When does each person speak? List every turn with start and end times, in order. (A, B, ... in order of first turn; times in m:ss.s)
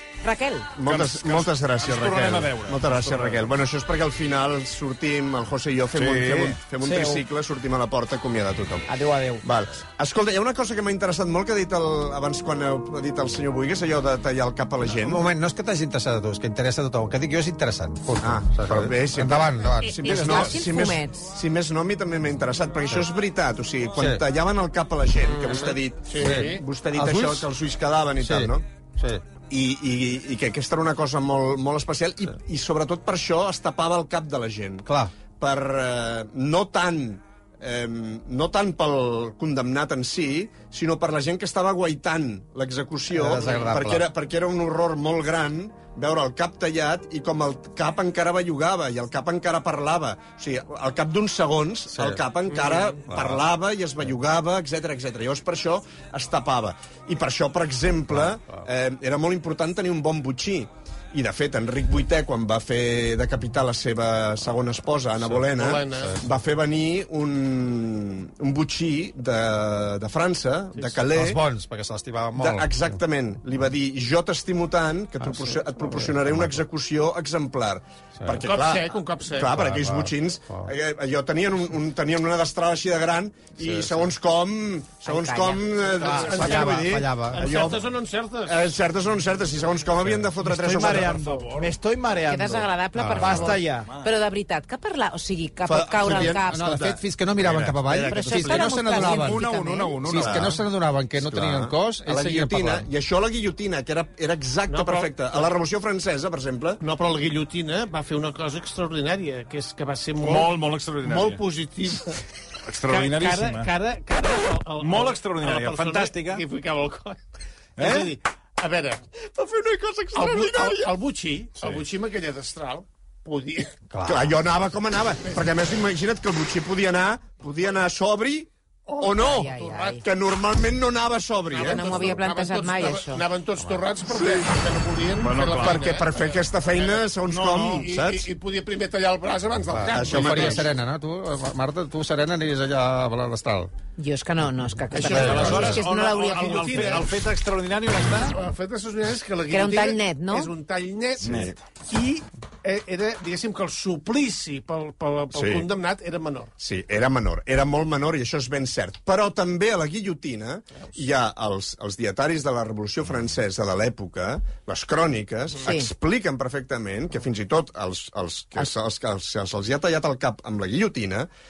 0:00.2-0:00.7 A
0:00.8-0:15.2 B
0:00.8-0:03.5 C
0:06.0-0:06.6 C
0:06.8-0:07.2 D
0:08.9-0:09.4 D
0:14.9-0:20.0 E
0:18.2-0:28.6 B
0:19.8-0:21.3 A
0:20.0-0:20.6 C
0:25.3-0:26.6 F
0:26.2-0:27.5 E
0:28.2-0:29.2 E
0:29.5-1:11.4 B
0:34.8-0:35.1 E
0:43.1-0:44.1 E
0:43.4-0:43.7 F
0:51.9-0:52.2 E
0:53.0-0:53.4 E
1:05.5-1:06.2 F
1:10.8-1:11.0 F
1:11.1-1:12.9 E
1:12.4-1:27.9 B
1:15.2-1:16.6 E
1:18.2-1:18.5 E
1:18.4-1:19.6 F
1:19.6-1:20.7 E
1:23.6-1:24.1 E
1:25.0-1:26.0 A
1:26.0-1:28.7 F
1:26.4-1:27.4 E
1:28.4-1:31.2 B
1:30.4-1:33.9 D
1:30.7-1:31.8 C
1:32.2-1:36.8 A
1:33.2-1:34.1 C
1:35.7-1:38.4 B
1:36.4-1:39.5 E
1:37.9-1:40.0 A
1:38.9-1:40.5 C
1:40.0-1:42.9 E
1:40.1-1:40.6 B
1:41.2-1:46.8 B
1:44.7-1:45.5 F
1:46.8-1:52.2 F
1:50.2-1:51.5 C
1:52.7-1:53.7 C
1:52.9-1:57.2 F
1:54.8-1:56.4 C
1:57.8-1:58.2 C
1:57.8-1:59.1 F
1:59.3-2:00.9 B
2:00.1-2:03.8 F
2:03.9-2:04.3 E
2:04.0-2:12.2 B
2:08.9-2:10.0 F
2:09.2-2:10.1 A
2:11.5-2:17.0 F
2:11.6-2:13.2 A
2:15.2-2:16.0 C
2:15.6-2:18.3 B
2:17.3-2:17.9 C
2:17.7-2:20.8 F
2:19.7-2:23.7 E
2:19.9-2:20.7 B
2:24.0-2:27.0 A
2:24.9-2:27.1 F
2:25.0-2:25.8 E
2:25.1-2:28.4 C
2:28.3-2:36.5 F
2:29.5-2:30.5 A
2:31.2-2:31.6 B
2:31.2-2:31.5 C
2:35.3-2:35.7 B
2:36.6-2:51.3 B